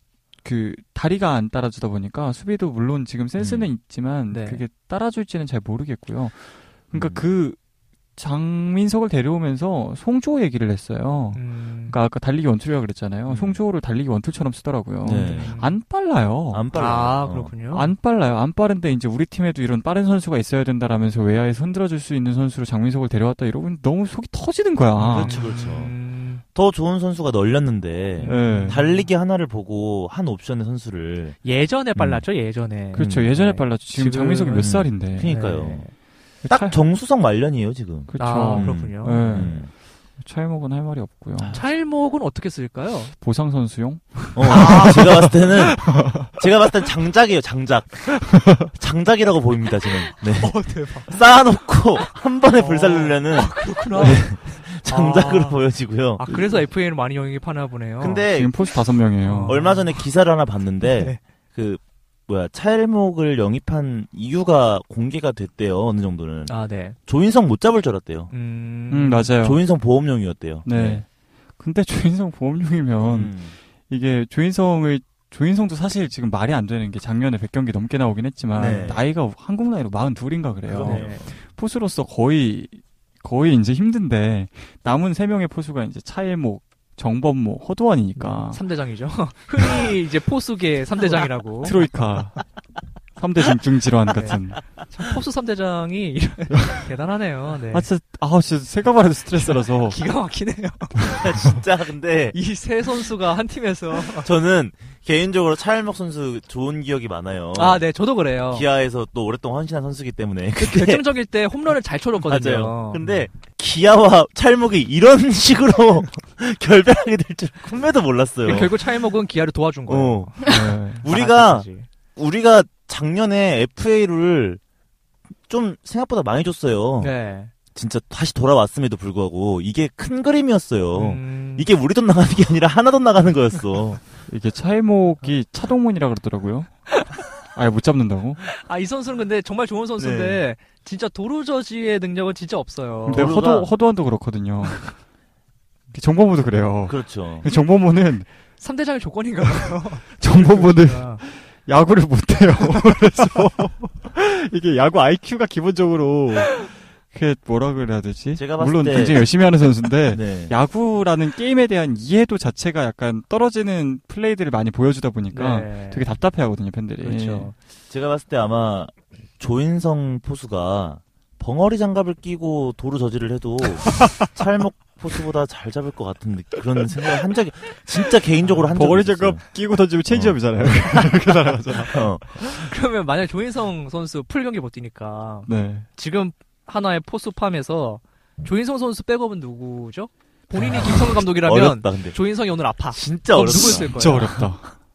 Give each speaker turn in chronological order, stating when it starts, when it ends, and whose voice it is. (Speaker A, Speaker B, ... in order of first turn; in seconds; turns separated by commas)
Speaker A: 0.4-7.6, Speaker B: 3.4-3.7, Speaker C: 4.3-4.6, Speaker B: 6.9-7.2, Speaker A: 8.2-16.6, Speaker C: 11.3-11.9, Speaker B: 13.2-13.6, Speaker B: 15.0-15.6, Speaker C: 15.2-15.8, Speaker B: 16.5-17.5, Speaker C: 16.7-17.9, Speaker A: 17.7-25.3, Speaker C: 25.0-26.4, Speaker B: 25.0-25.9, Speaker B: 26.5-31.4, Speaker C: 28.2-29.1, Speaker A: 28.2-28.8, Speaker C: 31.4-34.7, Speaker B: 31.9-32.2, Speaker B: 32.9-33.3, Speaker A: 32.9-35.4, Speaker B: 34.6-35.9, Speaker C: 35.2-35.9, Speaker A: 36.4-36.7, Speaker B: 36.5-39.7, Speaker A: 38.1-41.6, Speaker C: 38.2-39.5, Speaker C: 41.5-43.1, Speaker A: 43.1-45.3, Speaker B: 44.3-56.3, Speaker C: 44.4-45.8, Speaker A: 45.9-46.3, Speaker C: 50.3-51.2, Speaker C: 52.5-54.3, Speaker C: 54.9-55.6, Speaker C: 56.2-58.2, Speaker B: 58.0-58.6, Speaker A: 58.3-59.6, Speaker C: 59.2-60.0, Speaker B: 59.5-66.5, Speaker C: 60.8-61.2, Speaker C: 66.5-67.0, Speaker B: 67.0-68.3, Speaker C: 68.3-69.3, Speaker A: 68.9-69.6, Speaker B: 69.4-71.0, Speaker A: 70.6-71.1, Speaker A: 71.6-88.6, Speaker B: 73.0-73.5, Speaker B: 78.5-79.0, Speaker C: 78.6-78.9, Speaker B: 80.7-81.3, Speaker C: 80.8-81.3, Speaker C: 88.1-91.9, Speaker A: 91.6-92.5, Speaker A: 93.2-94.7, Speaker C: 94.1-97.9, Speaker A: 97.7-100.0, Speaker C: 99.4-101.2, Speaker B: 101.1-102.4, Speaker C: 102.3-104.3, Speaker B: 104.1-107.8, Speaker C: 107.5-108.7, Speaker B: 108.5-111.0, Speaker C: 110.6-113.0, Speaker B: 112.3-118.8, Speaker C: 118.4-121.9, Speaker B: 119.9-124.6, Speaker A: 120.5-121.0, Speaker B: 125.5-127.1, Speaker C: 127.0-127.5, Speaker B: 127.7-134.0, Speaker C: 130.9-131.7, Speaker A: 134.2-136.9, Speaker A: 137.5-138.4, Speaker C: 138.5-143.4, Speaker B: 140.0-140.4, Speaker B: 143.0-143.7, Speaker A: 143.1-145.0, Speaker A: 145.9-148.3, Speaker B: 146.8-147.5, Speaker C: 148.6-151.2, Speaker A: 150.2-167.5, Speaker B: 158.3-159.3, Speaker B: 160.1-160.5, Speaker C: 165.3-166.1, Speaker C: 167.0-167.5, Speaker B: 167.9-181.0, Speaker A: 173.8-174.3, Speaker C: 178.4-178.7, Speaker A: 178.7-182.5, Speaker B: 181.9-182.4, Speaker C: 182.4-194.5, Speaker A: 185.4-185.9, Speaker B: 190.6-192.2, Speaker B: 192.9-194.5, Speaker A: 193.4-194.7